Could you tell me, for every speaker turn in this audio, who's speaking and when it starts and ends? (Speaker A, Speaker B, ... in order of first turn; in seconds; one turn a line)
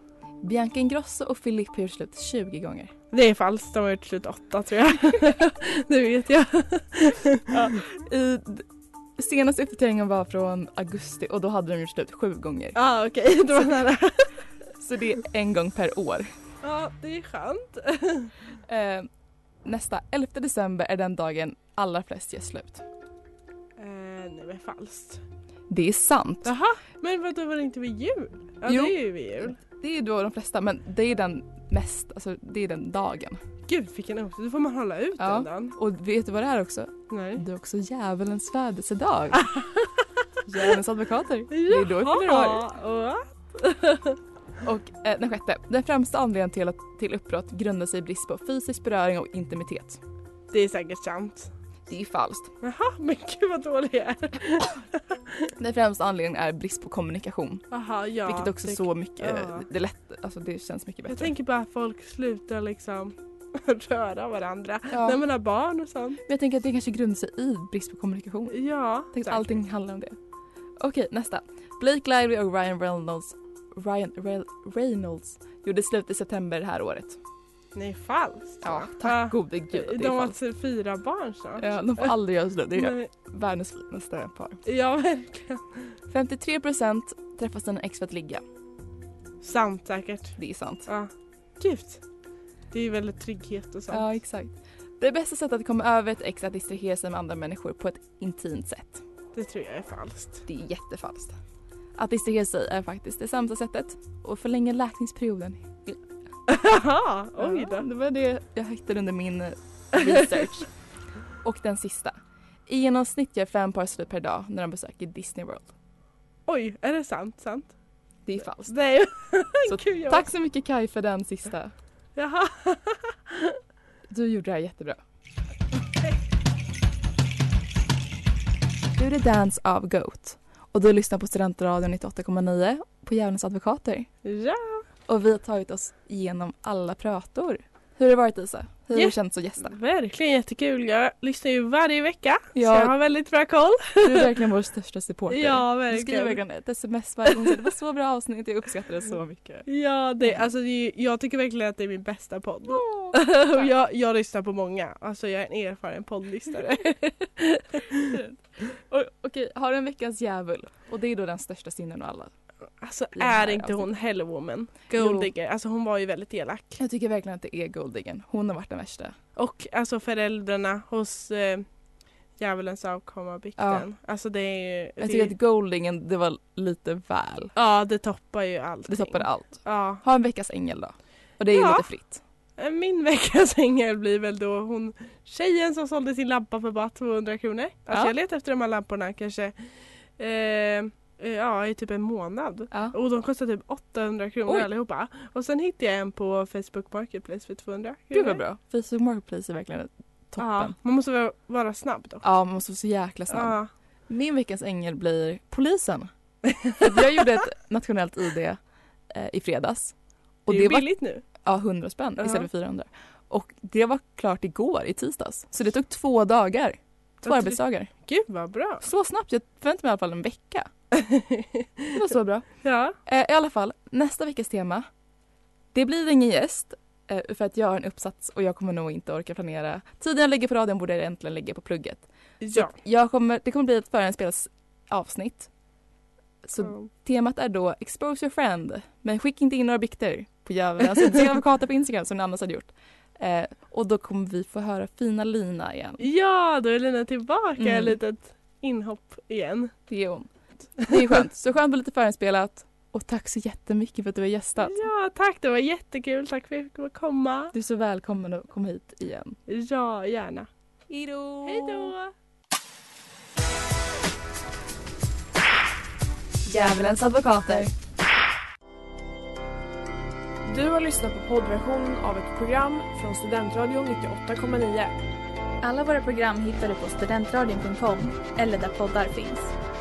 Speaker A: 0.4-2.9
Speaker B: 3.1-7.7
Speaker A: 7.5-8.7
Speaker A: 9.2-12.8
Speaker B: 12.8-14.3
Speaker A: 14.8-16.3
Speaker B: 16.6-18.3
Speaker A: 18.7-19.1
Speaker A: 19.6-22.8
Speaker B: 23.8-25.2
Speaker A: 25.7-26.5
Speaker B: 26.4-29.6
Speaker A: 28.6-33.4
Speaker B: 33.7-35.7
Speaker A: 35.2-39.4
Speaker B: 37.1-37.4
Speaker B: 39.5-39.8
Speaker A: 40.5-42.7
Speaker B: 41.5-44.2
Speaker A: 44.6-50.0
Speaker B: 50.5-51.5
Speaker A: 51.9-52.5
Speaker B: 52.6-55.5
Speaker A: 55.6-57.6
Speaker B: 57.7-59.7
Speaker A: 58.2-61.3
Speaker B: 61.1-66.2
Speaker A: 64.9-65.2
Speaker A: 66.2-70.2
Speaker B: 68.5-69.6
Speaker A: 70.8-77.2
Speaker B: 77.7-82.1
Speaker A: 78.6-80.3
Speaker A: 81.6-84.6
Speaker B: 82.7-83.1
Speaker B: 84.6-85.7
Speaker A: 86.1-88.4
Speaker B: 89.4-92.0
Speaker A: 90.4-90.9
Speaker B: 92.7-94.1
Speaker A: 93.9-99.0
Speaker B: 99.3-100.4
Speaker A: 100.5-101.3
Speaker A: 102.0-106.0
Speaker B: 106.5-107.9
Speaker A: 107.4-110.7
Speaker B: 110.0-110.5
Speaker A: 111.4-115.7
Speaker B: 116.5-117.7
Speaker A: 118.2-118.7
Speaker B: 118.7-120.3
Speaker A: 119.6-121.7
Speaker B: 122.2-123.6
Speaker A: 124.1-125.0
Speaker A: 128.9-134.1
Speaker B: 134.2-134.8
Speaker A: 135.1-139.7
Speaker B: 138.9-144.3
Speaker A: 142.5-142.9
Speaker A: 144.0-149.7
Speaker B: 145.3-146.4
Speaker B: 149.7-158.2
Speaker A: 152.7-153.7
Speaker A: 158.1-162.3
Speaker B: 162.8-166.8
Speaker A: 163.1-163.9
Speaker A: 164.9-165.3
Speaker A: 166.8-169.2
Speaker B: 169.3-171.7
Speaker B: 172.4-175.3
Speaker A: 173.6-173.8
Speaker A: 175.0-177.5
Speaker B: 177.5-180.0
Speaker A: 178.9-182.2
Speaker B: 181.5-181.9
Speaker B: 182.6-189.5
Speaker B: 190.2-198.4
Speaker A: 192.7-192.9
Speaker A: 198.1-200.7
Speaker B: 200.4-202.2
Speaker A: 202.2-203.6
Speaker B: 203.3-203.7
Speaker A: 204.1-206.1
Speaker B: 206.5-207.2
Speaker A: 206.8-208.6
Speaker A: 209.1-209.9
Speaker A: 210.4-217.9
Speaker B: 210.5-211.2
Speaker B: 212.2-212.5
Speaker B: 217.2-218.8
Speaker A: 218.8-220.7
Speaker B: 220.9-222.0
Speaker A: 221.9-222.5
Speaker B: 222.6-222.9
Speaker A: 223.1-224.9
Speaker A: 225.7-235.5
Speaker B: 232.4-232.7
Speaker A: 236.4-246.0
Speaker B: 236.6-236.9
Speaker B: 246.0-249.7
Speaker A: 247.6-248.0
Speaker A: 249.9-254.8
Speaker B: 250.8-251.1
Speaker B: 254.6-257.5
Speaker A: 257.5-259.4
Speaker B: 259.5-260.5
Speaker A: 260.9-261.9
Speaker B: 261.4-262.1
Speaker A: 266.5-267.7
Speaker C: 266.6-267.6
Speaker D: 270.4-274.9
Speaker C: 275.6-279.5